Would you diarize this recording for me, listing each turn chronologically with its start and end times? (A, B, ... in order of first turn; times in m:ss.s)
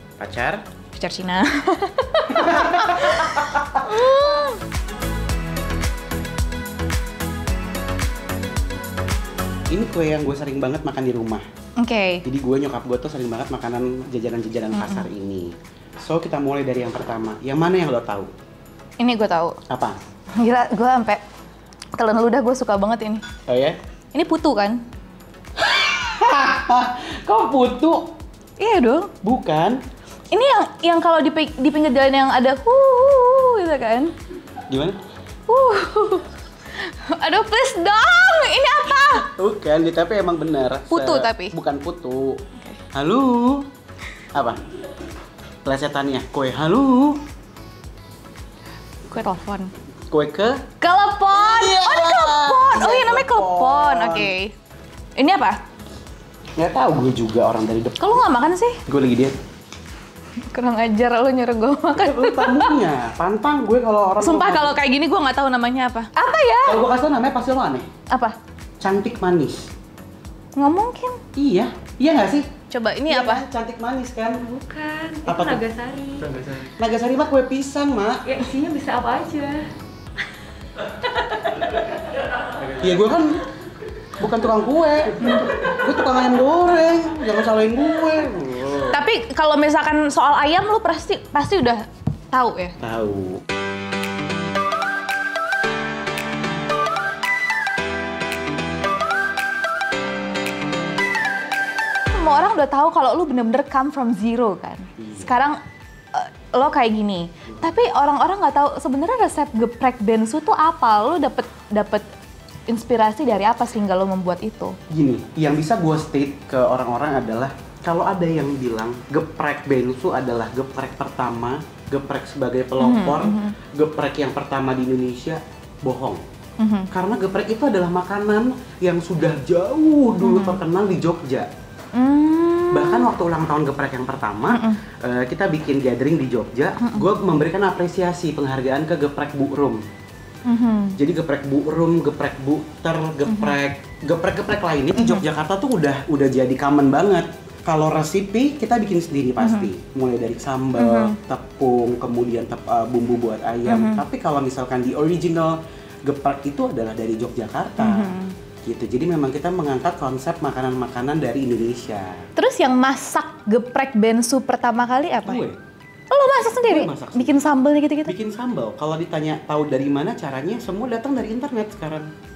0:00.2-0:00.6 A
0:01.0-0:04.6 B
0:02.3-0:04.2 A
0:09.7-0:11.4 A
0:11.8-0:12.2 B
0:12.2-0:18.3 A
0:14.7-0:15.1 B
0:19.0-0:19.6 B
0:19.7-0:20.0 A
0:20.4-0:21.2 B
0:22.0-0:23.2 B
0:23.5-0:23.8 A
0:24.1-0:24.8 B
0:25.6-0:28.2 A
0:28.6-0:29.1 B
0:29.2-0:29.8 A
0:30.3-0:34.1 B
0:34.7-0:35.0 A
0:35.5-0:39.3 B
0:39.4-0:43.7 A
0:40.9-0:41.6 B
0:44.3-0:44.6 A
0:45.6-0:47.2 A
0:49.1-0:49.7 B
0:50.1-0:50.6 A
0:50.8-0:54.5 B
0:51.3-0:54.3 A
0:55.2-0:55.6 B
0:56.6-0:58.2 A
0:58.0-0:58.8 B
0:58.9-0:59.4 A
1:00.4-1:02.8 B
1:02.0-1:04.8 A
1:04.2-1:06.8 B
1:06.6-1:07.9 A
1:08.8-1:09.7 A
1:10.6-1:11.2 B
1:11.4-1:12.5 A
1:12.7-1:13.4 B
1:13.1-1:14.4 A
1:14.4-1:16.6 C
1:15.3-1:15.6 A
1:16.2-1:18.2 A
1:18.3-1:19.7 C
1:21.0-1:22.0 C
1:22.7-1:23.5 A
1:24.2-1:29.0 A
1:25.2-1:25.5 B
1:28.9-1:32.8 B
1:32.8-1:33.4 A
1:42.1-1:45.6 B
1:45.0-1:45.3 A
1:46.1-1:52.1 B
1:52.7-1:54.8 B
1:54.9-2:06.2 A
2:02.8-2:03.6 B
2:06.6-2:06.9 B
2:06.9-2:11.5 A
2:10.2-2:10.6 B
2:11.9-2:13.1 B
2:12.7-2:19.8 A
2:14.5-2:14.8 B
2:16.8-2:17.1 B
2:20.5-2:21.0 B
2:21.0-2:38.1 A
2:23.3-2:23.6 B
2:25.0-2:25.2 B
2:29.4-2:29.7 B
2:30.8-2:31.2 B
2:33.7-2:34.0 B
2:37.8-2:38.4 B
2:38.6-2:42.3 A
2:42.4-2:45.5 B
2:45.2-2:45.6 A
2:46.1-2:48.1 B
2:46.5-2:47.4 A
2:48.0-2:52.1 A